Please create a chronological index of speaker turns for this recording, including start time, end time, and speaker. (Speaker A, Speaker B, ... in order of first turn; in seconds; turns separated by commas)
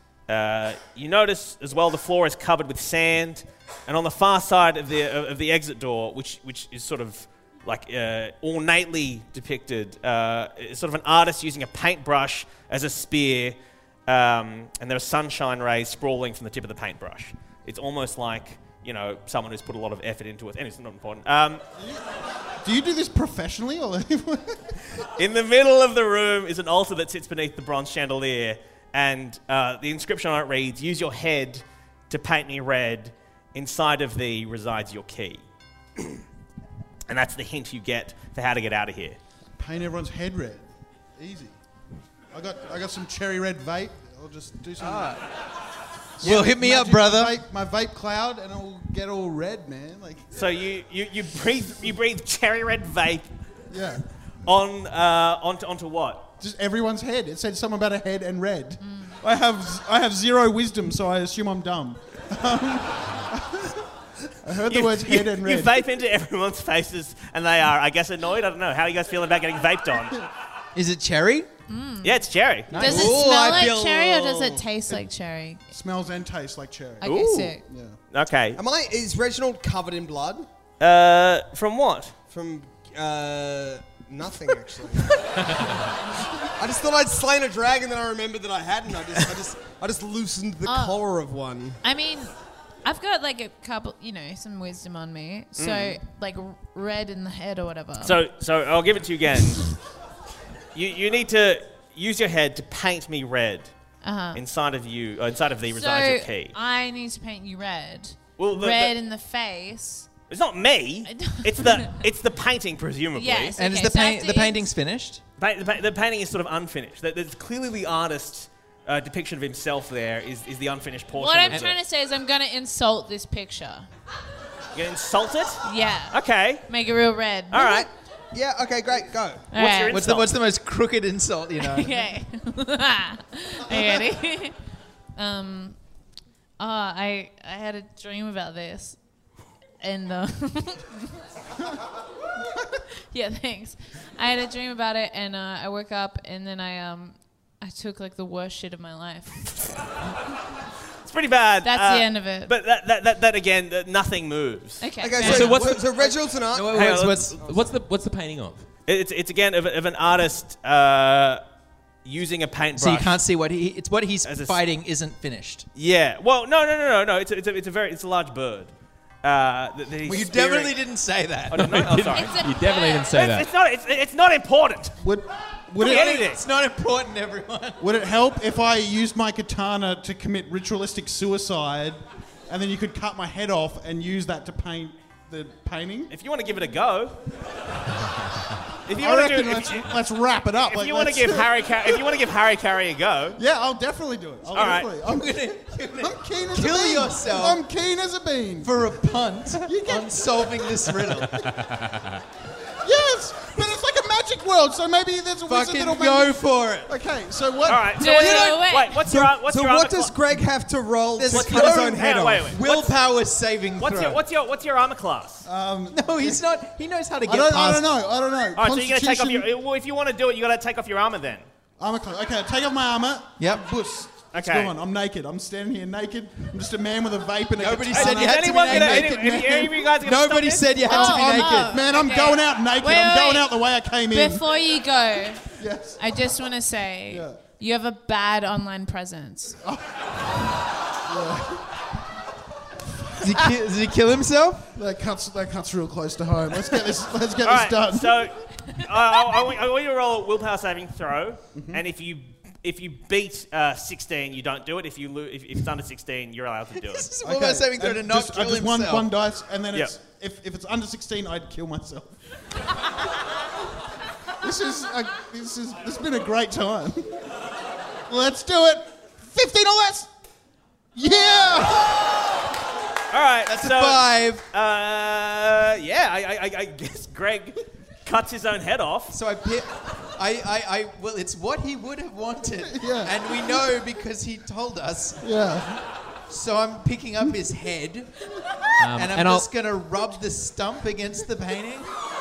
Speaker A: 0.3-21.6, Speaker B: 22.6-24.8, Speaker A: 25.2-35.4, Speaker A: 37.1-39.2, Speaker B: 39.6-40.6, Speaker B: 41.2-41.5, Speaker B: 42.3-45.2, Speaker C: 46.2-47.4, Speaker B: 46.2-50.3, Speaker A: 50.3-53.3, Speaker B: 53.7-54.0, Speaker A: 54.5-56.3, Speaker B: 56.4-63.9, Speaker D: 58.8-59.2, Speaker B: 64.4-65.8, Speaker A: 64.7-70.2, Speaker C: 70.8-71.5, Speaker D: 71.7-75.6, Speaker A: 72.0-73.0, Speaker C: 72.7-73.8, Speaker E: 72.7-74.6, Speaker B: 75.7-78.0, Speaker D: 77.0-77.6, Speaker A: 77.0-77.5, Speaker A: 78.1-78.6, Speaker E: 78.6-80.5, Speaker A: 80.8-82.1, Speaker E: 82.3-85.2, Speaker E: 86.6-91.8, Speaker D: 90.7-91.0, Speaker D: 91.8-92.3, Speaker D: 92.8-98.2, Speaker A: 95.6-96.0, Speaker A: 98.0-99.7, Speaker A: 100.8-103.7, Speaker D: 104.0-104.4, Speaker A: 104.3-106.5, Speaker D: 105.7-110.1, Speaker A: 108.4-108.9, Speaker A: 110.3-113.5, Speaker D: 111.1-112.0, Speaker D: 113.2-114.7, Speaker C: 113.6-115.2, Speaker A: 115.4-121.8, Speaker D: 121.2-123.9, Speaker A: 124.7-125.6, Speaker D: 125.6-127.9, Speaker A: 126.1-126.7, Speaker A: 127.5-127.8, Speaker E: 128.3-129.5, Speaker D: 129.5-129.9, Speaker A: 129.5-130.3, Speaker C: 129.9-131.9, Speaker D: 131.6-134.6, Speaker D: 135.2-135.8, Speaker D: 136.6-139.0, Speaker D: 139.8-141.1, Speaker D: 143.1-149.5, Speaker A: 151.1-154.8, Speaker D: 151.7-152.5, Speaker D: 154.8-155.8, Speaker E: 155.0-157.6, Speaker F: 155.2-155.8, Speaker C: 156.0-157.4, Speaker F: 156.6-158.7, Speaker A: 156.7-157.3, Speaker A: 158.9-161.4, Speaker A: 162.1-163.2, Speaker C: 162.8-165.7, Speaker A: 164.2-164.6, Speaker A: 165.8-168.7, Speaker A: 169.2-170.7, Speaker C: 170.1-171.8, Speaker A: 171.5-172.3, Speaker F: 171.5-173.5, Speaker D: 172.2-173.1, Speaker A: 173.1-175.0, Speaker B: 175.0-176.2, Speaker A: 175.8-176.4, Speaker C: 175.8-177.8, Speaker B: 177.8-186.1, Speaker A: 186.1-187.2, Speaker A: 188.9-190.0, Speaker B: 188.9-192.0, Speaker A: 190.7-193.4, Speaker B: 193.4-195.3, Speaker A: 194.5-194.9, Speaker C: 194.8-197.6, Speaker B: 196.0-198.9, Speaker C: 198.6-201.5, Speaker B: 199.6-200.6, Speaker F: 201.2-202.2, Speaker B: 202.8-208.1, Speaker C: 205.5-206.9, Speaker A: 207.7-210.2, Speaker D: 208.0-209.0, Speaker C: 208.1-208.5, Speaker E: 209.1-212.6, Speaker C: 211.2-214.2, Speaker A: 211.3-213.0, Speaker A: 213.8-215.4, Speaker B: 215.4-216.4, Speaker C: 215.9-217.9, Speaker B: 217.3-219.4, Speaker A: 218.6-221.5, Speaker B: 221.8-229.7, Speaker C: 223.4-223.7, Speaker A: 224.3-224.7, Speaker C: 227.6-231.9, Speaker A: 227.9-231.0, Speaker B: 230.9-234.4, Speaker D: 230.9-233.6, Speaker D: 234.1-239.6, Speaker B: 235.6-236.0, Speaker B: 237.1-237.4, Speaker B: 239.6-240.0, Speaker B: 241.1-241.7, Speaker C: 243.2-244.7, Speaker B: 244.8-248.3, Speaker A: 247.4-257.1, Speaker B: 251.5-251.8, Speaker C: 256.9-259.1, Speaker B: 257.2-262.2, Speaker B: 264.4-267.3, Speaker B: 268.1-270.1, Speaker B: 270.9-272.1, Speaker A: 273.1-279.1, Speaker C: 273.5-274.4, Speaker C: 279.1-285.2, Speaker B: 282.6-283.1, Speaker B: 285.2-285.8, Speaker C: 286.3-288.1, Speaker F: 288.8-289.5, Speaker C: 288.9-291.9